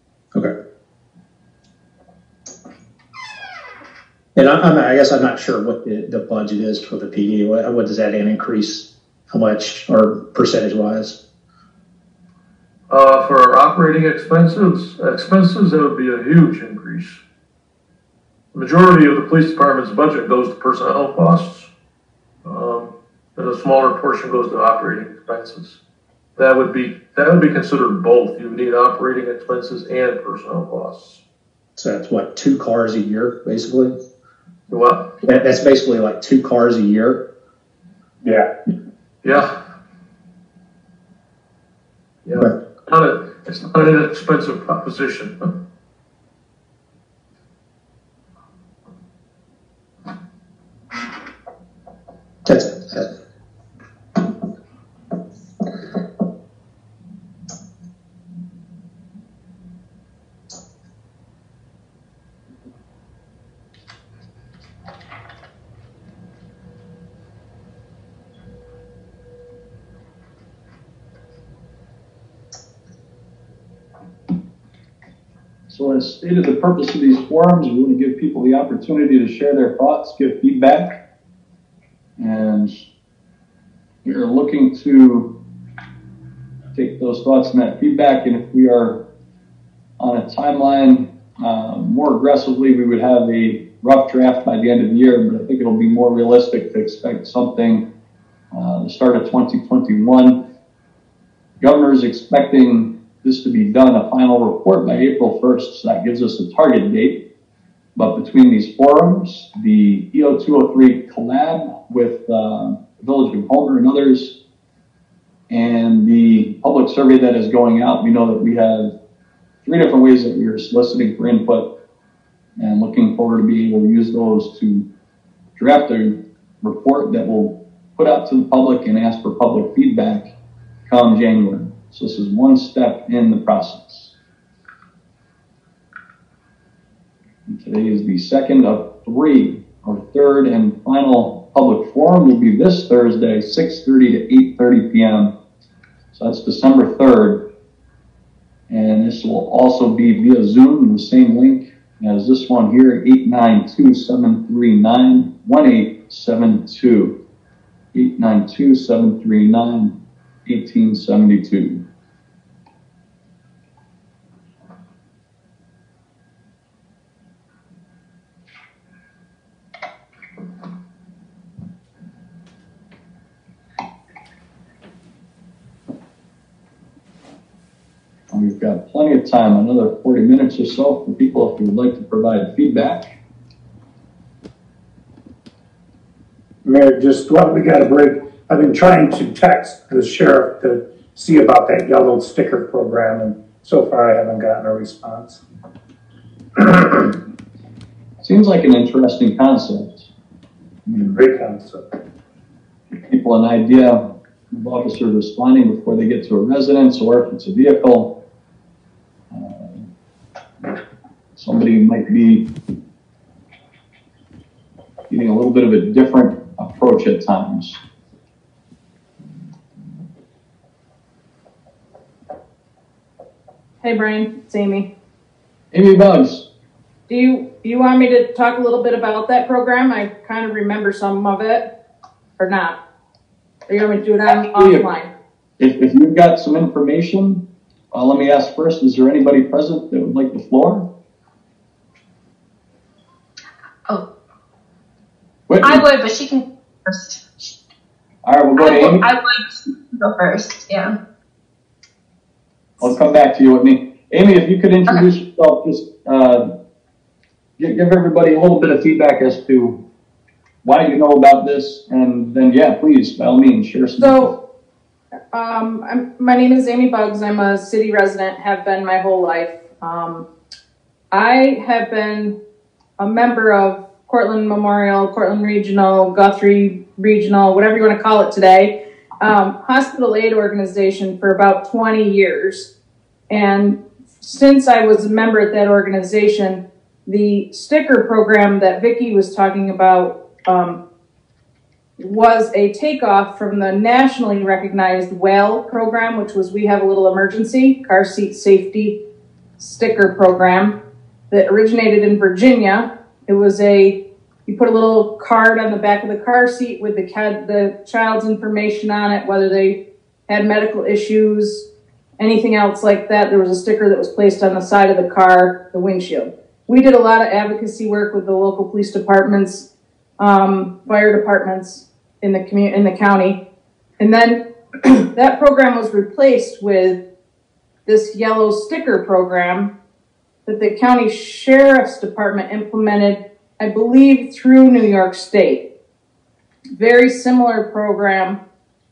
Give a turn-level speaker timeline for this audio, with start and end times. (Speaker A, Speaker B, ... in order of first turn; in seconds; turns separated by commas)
Speaker A: 4.3-11.2, Speaker B: 12.9-17.2, Speaker B: 18.5-21.7, Speaker B: 22.4-25.8, Speaker B: 26.4-31.2, Speaker A: 31.8-34.0, Speaker B: 34.7-35.1, Speaker A: 35.2-37.2, Speaker B: 39.2-39.6, Speaker B: 42.2-45.5, Speaker A: 52.5-53.1, Speaker C: 75.7-81.0, Speaker C: 82.2-82.9, Speaker C: 84.0-85.3, Speaker C: 86.8-89.0, Speaker C: 90.0-97.9, Speaker C: 98.5-100.4, Speaker C: 101.6-107.2, Speaker C: 108.0-114.4, Speaker C: 115.5-118.9, Speaker C: 119.6-121.7, Speaker C: 122.6-124.8, Speaker C: 125.6-130.3, Speaker C: 130.9-134.1, Speaker C: 137.5-145.3, Speaker C: 146.1-147.4, Speaker C: 148.7-157.2, Speaker C: 157.9-159.9, Speaker C: 160.5-161.8, Speaker C: 178.3-183.1, Speaker D: 186.6-195.4, Speaker D: 196.6-197.1, Speaker C: 198.2-200.1, Speaker C: 200.9-201.2, Speaker D: 201.0-201.8, Speaker C: 203.0-208.1, Speaker C: 209.3-209.9, Speaker C: 211.4-212.5, Speaker C: 215.1-217.8, Speaker E: 223.8-224.9, Speaker C: 225.7-226.5, Speaker E: 227.1-231.7, Speaker E: 232.4-232.8, Speaker E: 233.7-235.1, Speaker C: 234.3-234.8, Speaker C: 235.6-240.9, Speaker C: 245.5-245.8, Speaker F: 245.6-247.4, Speaker C: 248.2-249.1, Speaker F: 248.6-250.9, Speaker C: 252.8-256.5, Speaker C: 257.6-259.8, Speaker C: 260.6-264.4, Speaker E: 264.0-264.3, Speaker E: 265.3-270.3, Speaker E: 271.1-272.4, Speaker E: 273.0-282.7, Speaker E: 283.3-290.8, Speaker E: 292.0-299.0, Speaker E: 299.6-300.8, Speaker E: 301.3-311.7, Speaker E: 312.2-319.7, Speaker E: 320.2-323.4, Speaker E: 324.0-327.0, Speaker E: 327.9-329.7, Speaker E: 330.5-335.6, Speaker E: 336.8-338.4